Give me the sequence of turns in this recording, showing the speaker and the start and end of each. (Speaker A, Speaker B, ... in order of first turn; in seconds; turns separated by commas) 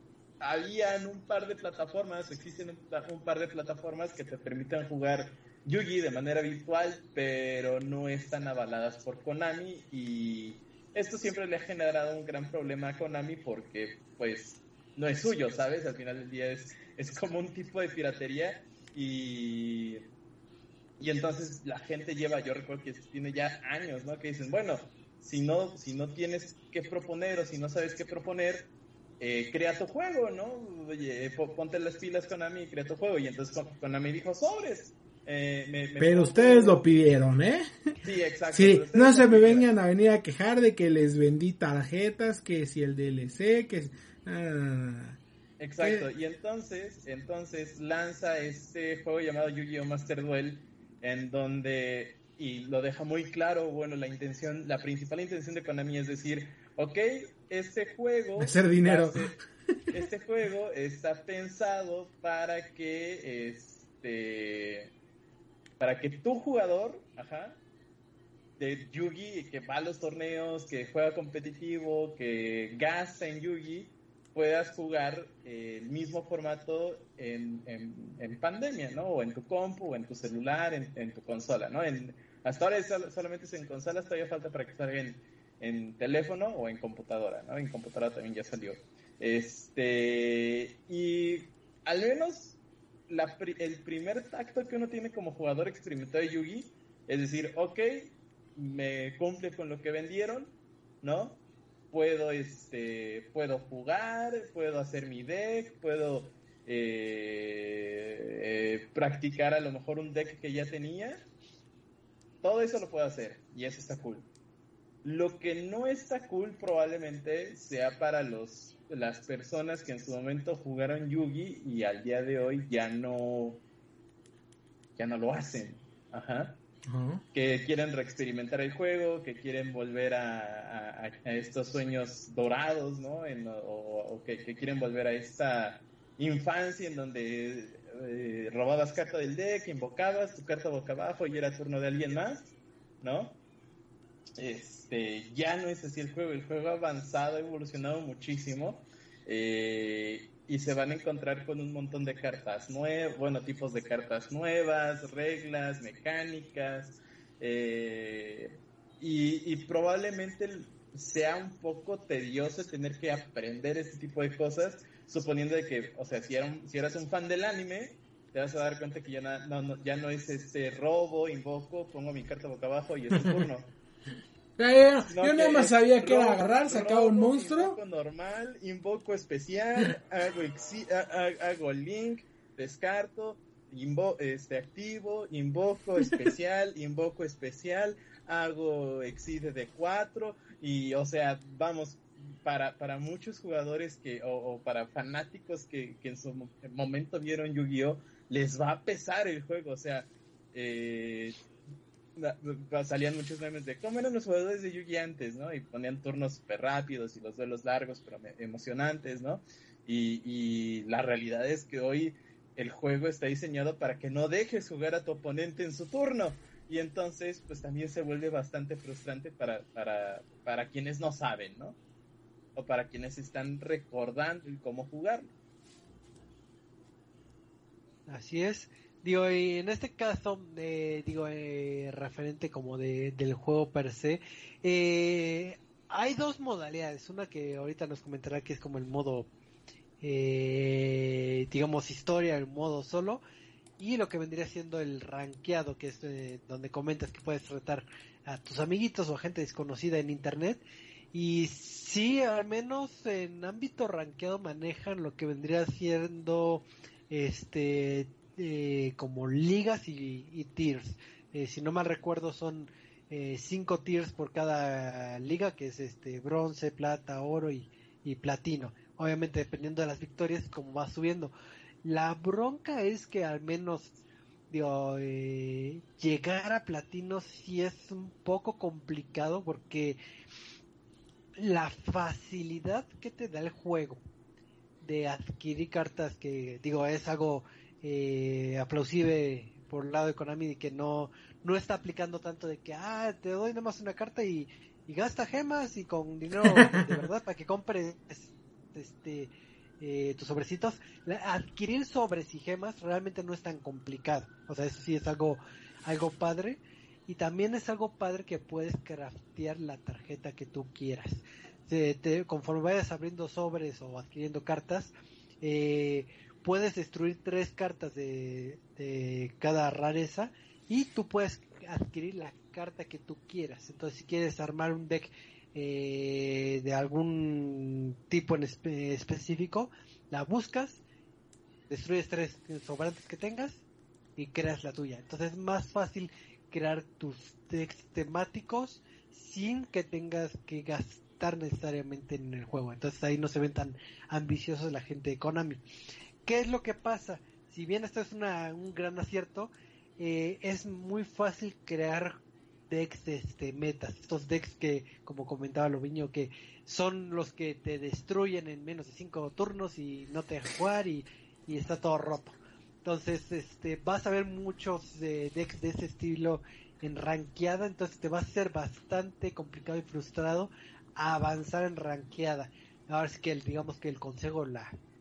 Speaker A: 0.4-20.1, Speaker A: 21.0-36.9, Speaker B: 36.0-37.9, Speaker A: 38.0-39.7, Speaker B: 38.5-45.2, Speaker A: 45.6-59.3, Speaker B: 45.8-46.1, Speaker B: 58.4-59.3, Speaker A: 59.9-64.9, Speaker A: 65.8-67.6, Speaker A: 68.6-92.6, Speaker A: 93.1-101.4, Speaker A: 101.9-111.2, Speaker A: 112.4-114.3, Speaker A: 115.0-123.6, Speaker A: 125.0-126.6, Speaker B: 126.9-127.2, Speaker A: 127.3-143.4, Speaker A: 144.4-173.7, Speaker B: 174.6-177.8, Speaker A: 175.1-201.4, Speaker A: 202.2-221.8, Speaker A: 222.6-225.3, Speaker C: 228.1-239.3, Speaker C: 240.0-243.2, Speaker C: 243.8-271.3, Speaker C: 271.8-274.0, Speaker C: 274.5-280.0, Speaker C: 281.4-284.0, Speaker C: 284.8-330.8, Speaker B: 296.4-297.0, Speaker C: 331.7-333.6, Speaker C: 334.2-345.6, Speaker C: 346.2-374.7